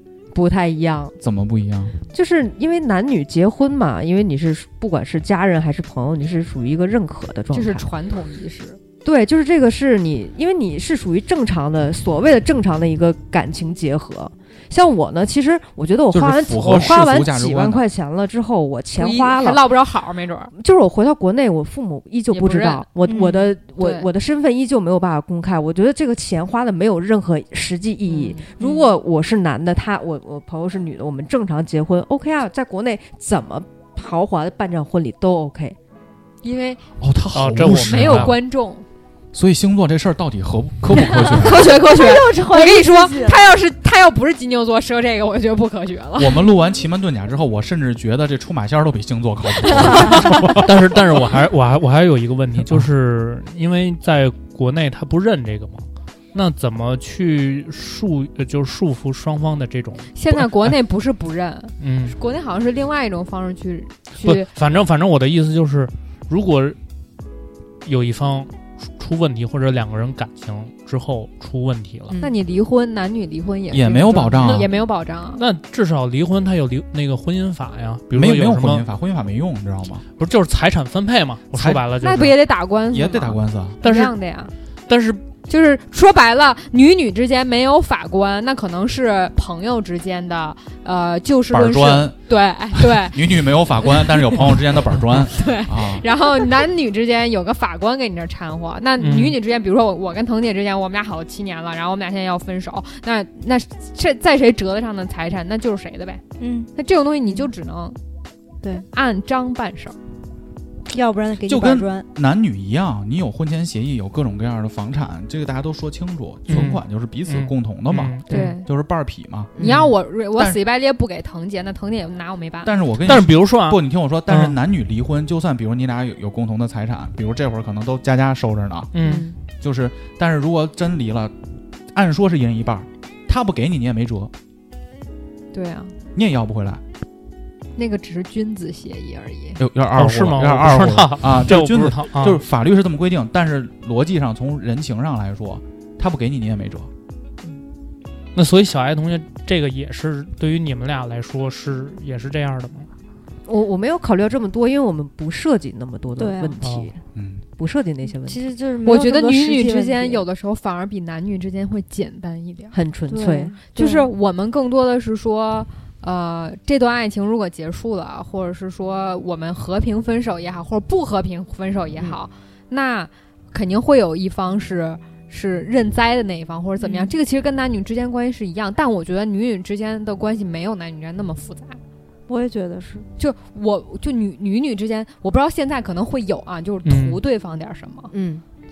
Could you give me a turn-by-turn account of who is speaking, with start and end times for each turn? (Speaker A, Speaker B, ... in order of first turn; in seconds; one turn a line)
Speaker A: 0.3-1.2
Speaker B: 1.2-2.0
Speaker A: 2.0-7.9
Speaker C: 7.5-8.8
Speaker A: 9.0-19.8
Speaker B: 16.1-17.8
Speaker C: 19.0-20.5
Speaker A: 20.5-35.8
Speaker C: 22.3-22.9
Speaker D: 23.0-23.5
Speaker C: 23.8-24.1
Speaker C: 28.1-28.9
Speaker C: 36.4-36.8
Speaker B: 37.0-38.4
Speaker E: 37.3-38.4
Speaker C: 37.8-38.9
Speaker B: 39.3-41.7
Speaker C: 41.0-46.5
Speaker D: 41.8-43.4
Speaker B: 46.2-50.7
Speaker E: 50.5-60.1
Speaker C: 60.1-64.5
Speaker E: 61.8-62.2
Speaker E: 64.2-66.8
Speaker E: 67.8-72.1
Speaker A: 72.1-72.4
Speaker C: 72.2-75.4
Speaker B: 73.7-74.7
Speaker E: 75.3-78.9
Speaker B: 78.1-80.0
Speaker E: 80.2-82.4
Speaker B: 81.5-81.9
Speaker C: 82.0-84.5
Speaker B: 82.9-83.8
Speaker E: 83.8-84.2
Speaker E: 84.9-85.3
Speaker C: 85.5-93.2
Speaker B: 91.5-92.2
Speaker B: 92.7-96.1
Speaker C: 93.8-94.4
Speaker C: 95.3-106.2
Speaker E: 99.0-99.4
Speaker D: 106.4-106.7
Speaker C: 106.8-108.0
Speaker C: 108.9-110.0
Speaker D: 110.9-112.0
Speaker B: 111.5-119.5
Speaker E: 116.5-118.5
Speaker A: 118.3-118.6
Speaker C: 118.3-118.7
Speaker A: 119.6-119.9
Speaker C: 119.6-122.7
Speaker E: 119.6-119.9
Speaker B: 122.6-128.9
Speaker E: 123.0-124.6
Speaker E: 128.9-129.3
Speaker A: 129.0-129.3
Speaker C: 129.0-129.3
Speaker B: 129.6-131.3
Speaker B: 131.9-134.3
Speaker C: 135.5-136.0
Speaker B: 136.1-136.8
Speaker C: 137.8-139.6
Speaker B: 139.6-146.9
Speaker E: 139.9-142.4
Speaker E: 148.3-152.9
Speaker A: 153.5-157.0
Speaker D: 156.2-156.6
Speaker E: 156.6-156.9
Speaker B: 157.2-157.4
Speaker A: 157.6-158.5
Speaker D: 158.2-160.3
Speaker C: 158.8-162.8
Speaker A: 162.7-163.6
Speaker D: 163.1-164.1
Speaker C: 163.7-181.8
Speaker D: 176.8-177.2
Speaker D: 182.3-183.1
Speaker C: 183.2-188.1
Speaker E: 186.8-187.2
Speaker A: 188.1-188.4